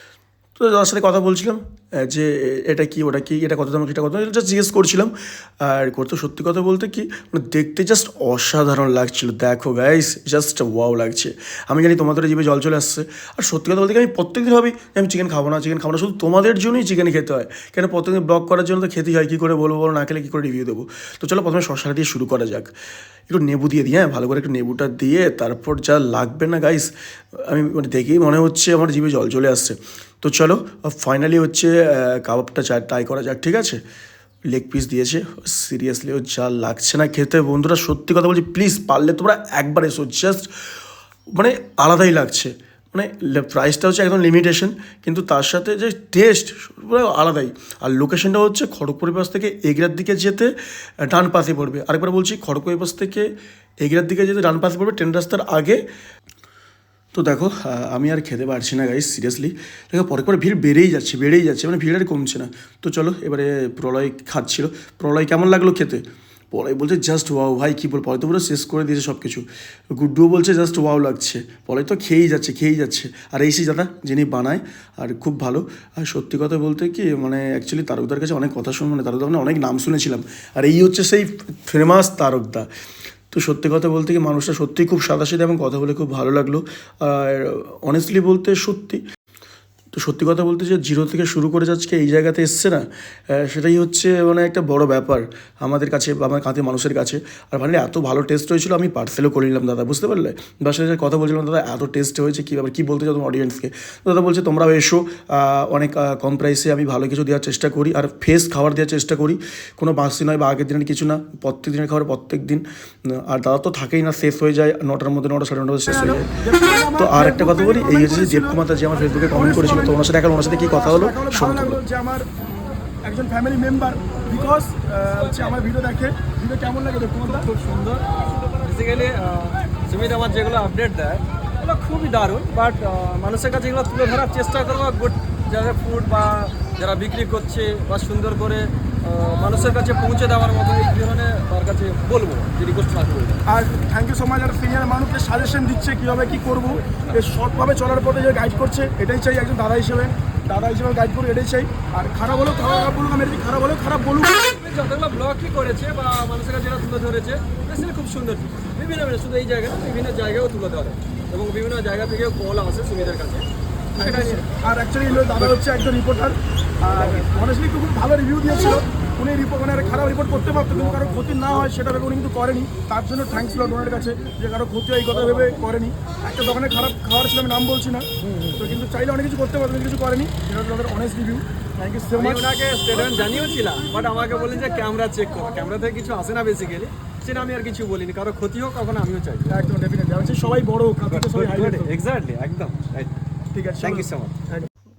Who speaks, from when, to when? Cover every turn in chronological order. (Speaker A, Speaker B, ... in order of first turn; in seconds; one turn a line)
Speaker A: 0.6-22.7
Speaker A: 23.3-33.8
Speaker A: 34.5-40.5
Speaker A: 41.3-53.3
Speaker A: 53.8-55.8
Speaker A: 57.1-82.7
Speaker A: 83.3-89.0
Speaker A: 90.0-116.4
Speaker B: 115.9-118.6
Speaker A: 117.0-121.8
Speaker B: 119.3-120.0
Speaker B: 120.7-127.5
Speaker C: 127.2-143.4
Speaker B: 143.5-154.4
Speaker C: 154.4-164.4
Speaker B: 164.0-182.5
Speaker C: 182.1-189.6
Speaker B: 189.5-191.9
Speaker C: 191.1-193.2
Speaker B: 193.5-194.6
Speaker C: 193.8-194.4